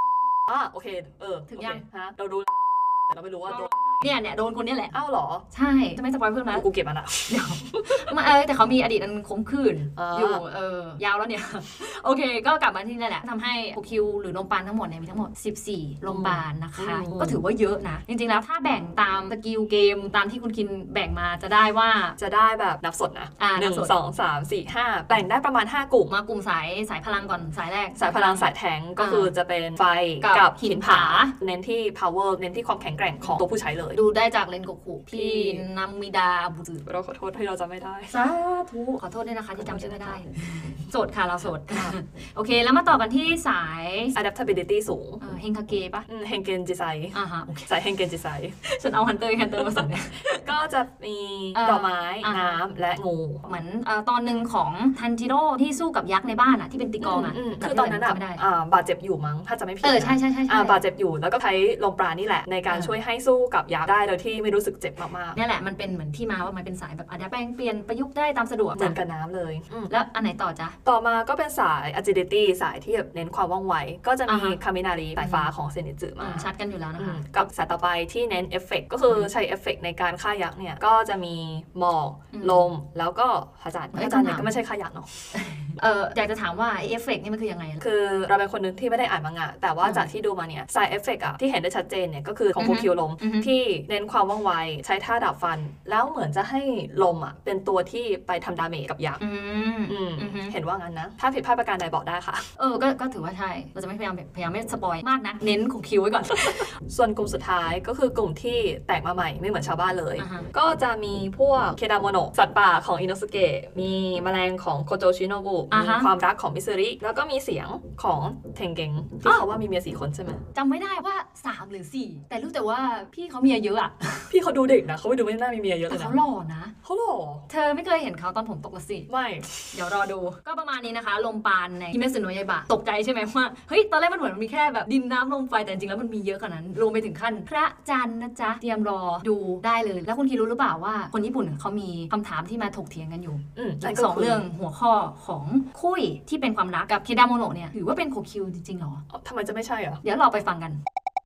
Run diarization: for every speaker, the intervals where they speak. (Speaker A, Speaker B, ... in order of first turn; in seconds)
Speaker A: 0.5-3.7, 4.9-5.5, 6.5-8.0, 10.0-10.4, 16.1-17.4, 22.2-26.1, 27.9-34.0, 35.1-35.6, 36.9-38.1, 39.6-40.2, 41.7-42.0, 44.1-45.2, 46.1-48.6, 49.9-53.5, 57.0-65.4, 68.8-69.9, 70.8-85.3, 87.8-99.2, 99.9-102.5, 106.9-120.4, 124.3-126.2, 126.8-127.5, 129.1-129.8, 143.6-144.4, 149.1-150.0
Speaker B: 1.5-1.8, 3.5-5.0, 5.5-6.7, 7.3-22.2, 23.4-23.9, 26.1-29.3, 30.2-31.3, 33.2-36.9, 38.1-44.1, 45.2-46.1, 47.1-47.7, 48.6-50.4, 51.5-52.6, 53.5-58.4, 59.8-60.8, 62.7-63.0, 65.3-69.0, 69.9-70.8, 74.3-74.6, 75.2-75.5, 76.2-77.5, 82.3-82.7, 83.9-84.5, 85.3-87.8, 89.8-90.1, 92.6-93.5, 99.2-100.5, 102.6-106.7, 110.2-110.5, 115.7-116.1, 120.5-124.3, 125.9-126.7, 127.5-129.1, 129.7-149.0, 150.0-150.8